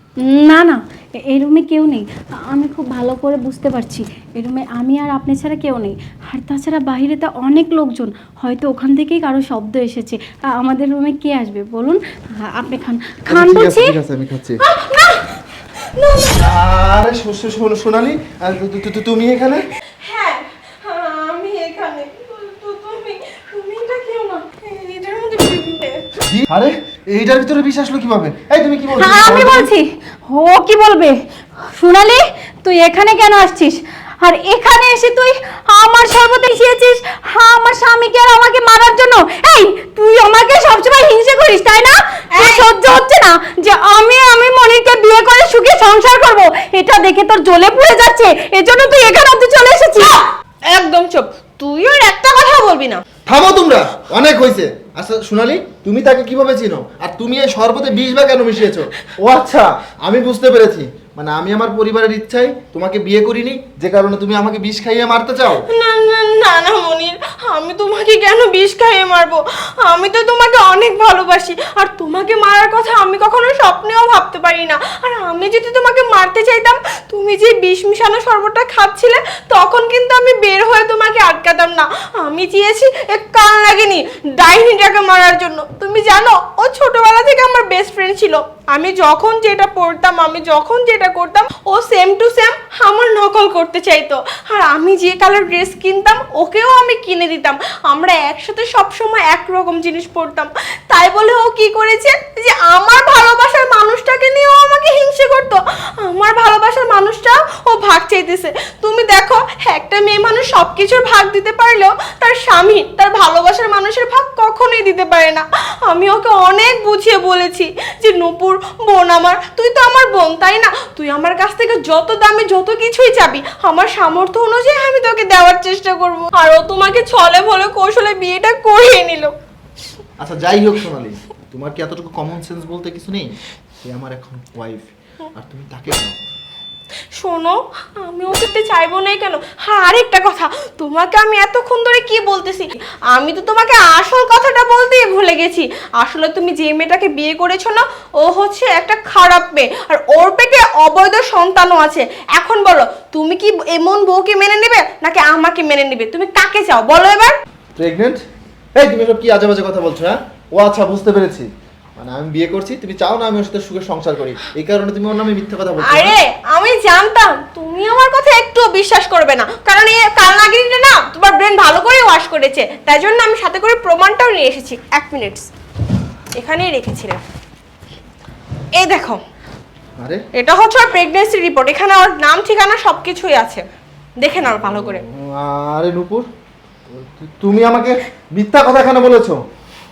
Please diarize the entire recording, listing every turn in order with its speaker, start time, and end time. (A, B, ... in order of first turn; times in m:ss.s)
0:00.2-0:13.9 A
0:13.3-0:14.6 B
0:14.6-0:16.6 C
0:16.4-0:19.7 B
0:20.0-0:26.0 C
0:26.2-0:29.7 B
0:28.9-0:50.2 A
0:42.3-0:42.7 C
0:50.0-0:53.0 C
0:53.3-1:05.7 B
1:05.6-2:09.3 C
2:10.2-2:16.2 B
2:17.2-2:37.4 C
2:37.8-2:38.2 B
2:38.8-2:41.5 B
2:42.0-2:46.2 B
2:45.8-2:55.5 C
2:56.4-2:57.2 C
2:58.8-2:59.2 C
3:00.4-3:03.6 C
3:04.2-3:05.0 C
3:04.3-3:06.3 B
3:06.9-3:09.4 B